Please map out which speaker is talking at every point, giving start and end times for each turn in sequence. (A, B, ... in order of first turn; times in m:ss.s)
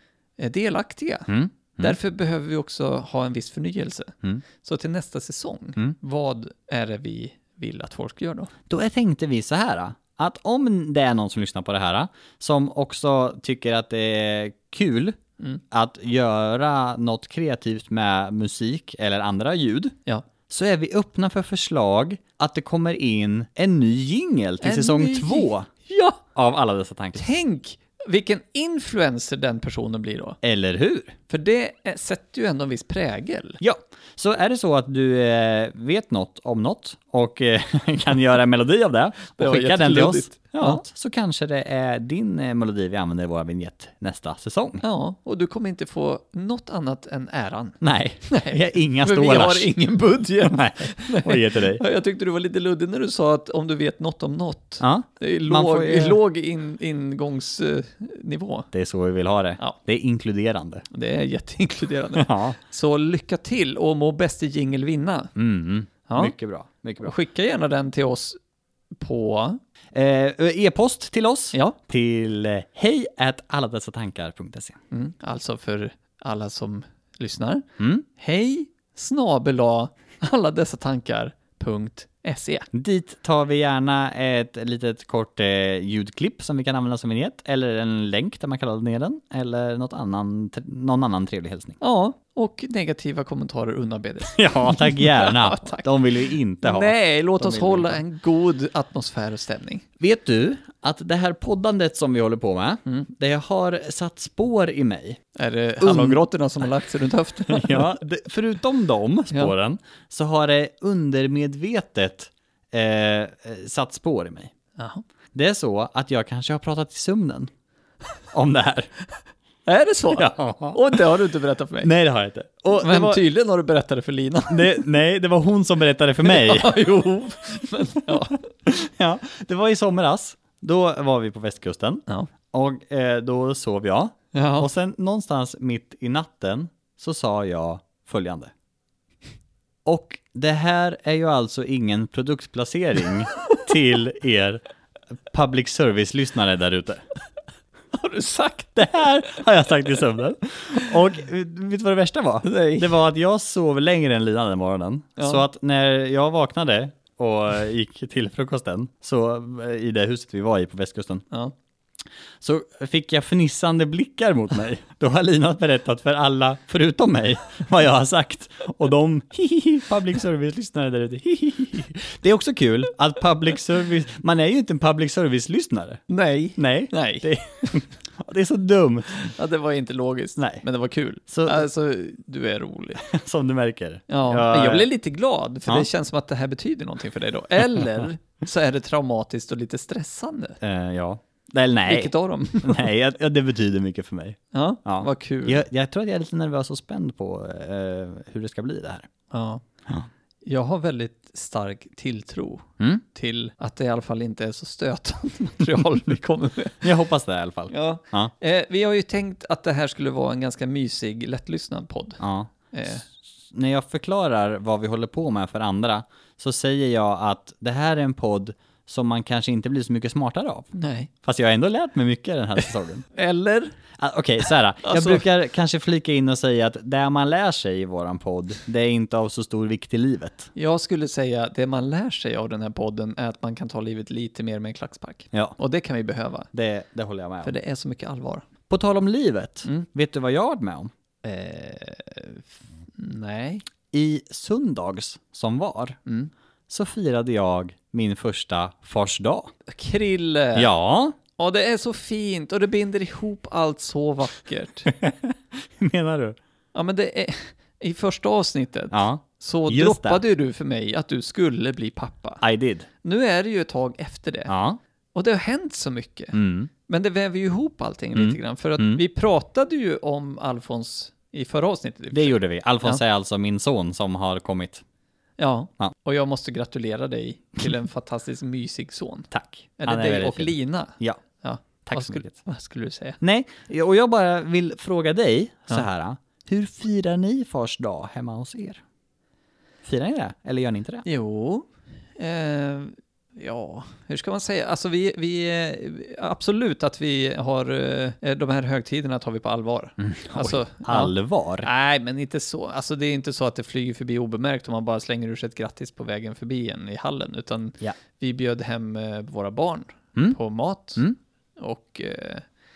0:00.4-0:08.5 A
0:01.3-0:02.0 B
0:08.7-0:15.2 B
0:15.7-0:20.0 B
0:20.5-0:25.7 B
0:24.6-0:26.2 A
0:26.3-0:27.2 B
0:27.2-0:30.4 A
0:30.4-0:31.2 B
0:31.3-0:33.6 A
0:33.6-0:44.8 B
0:39.4-0:40.8 A
0:44.8-0:58.7 A
0:47.8-0:49.7 B
0:50.4-0:51.8 B
0:54.8-0:56.2 B
0:58.7-1:00.8 B
1:00.9-1:05.3 A
1:02.2-1:02.6 B
1:05.4-1:07.1 B
1:06.1-1:06.3 A
1:07.0-1:08.4 A
1:09.0-1:09.6 A
1:09.9-1:14.8 B
1:14.9-1:22.7 A
1:17.8-1:18.0 B
1:22.7-1:31.8 B
1:31.8-1:35.9 A
1:34.3-1:38.0 B
1:36.6-1:39.8 A
1:40.0-1:45.2 B
1:45.4-1:47.9 A
1:45.8-1:46.2 B
1:47.5-1:54.5 B
1:54.8-1:55.0 A
1:55.3-1:57.5 B
1:58.3-1:58.9 B
1:59.7-2:01.9 A
2:00.1-2:01.2 B
2:01.8-2:03.2 B
2:02.7-2:04.9 A
2:04.5-2:06.8 B
2:06.2-2:08.5 A
2:08.1-2:18.5 B
2:14.3-2:14.7 A
2:19.8-2:24.6 B
2:25.3-2:27.0 B
2:27.9-2:28.9 A
2:28.8-2:41.2 B
2:32.4-2:32.9 A
2:35.2-2:35.4 A
2:42.4-2:56.0 B
2:56.1-2:57.8 A
2:56.6-2:59.3 B
2:59.2-3:03.0 A
3:00.4-3:00.6 B
3:01.3-3:01.7 B
3:03.0-3:04.9 B
3:04.1-3:10.6 A
3:10.6-3:19.1 B
3:11.9-3:12.9 A
3:14.5-3:15.6 A
3:19.3-3:19.6 A
3:20.4-3:26.9 A
3:26.8-3:28.3 B
3:27.7-3:33.0 A
3:32.2-3:32.5 B
3:33.1-3:40.7 B
3:40.8-3:41.1 A
3:41.2-3:43.0 B
3:42.6-3:43.8 A
3:44.0-3:50.5 B
3:44.8-3:45.3 A
3:50.6-3:56.5 A
3:56.5-3:57.5 B
3:57.4-3:58.5 A
3:58.7-4:00.9 B
4:01.2-4:02.4 A
4:03.0-4:03.7 A
4:03.9-4:06.0 B
4:06.1-4:06.3 A
4:06.7-4:09.5 B
4:09.7-4:10.7 A
4:10.6-4:11.2 B
4:11.4-4:14.9 A
4:14.9-4:16.4 B
4:16.7-4:22.4 A
4:18.9-4:20.2 B
4:22.4-4:22.9 B
4:23.0-4:24.5 A
4:24.5-4:24.8 B
4:25.1-4:33.0 A
4:26.3-4:26.7 B
4:28.2-4:29.0 B
4:32.1-4:34.8 B
4:35.4-4:43.2 A
4:39.3-4:41.2 B
4:41.8-4:42.3 B
4:43.2-4:48.8 B
4:49.8-4:51.0 B
4:51.0-5:11.0 A
5:00.0-5:01.7 B
5:11.6-5:12.4 A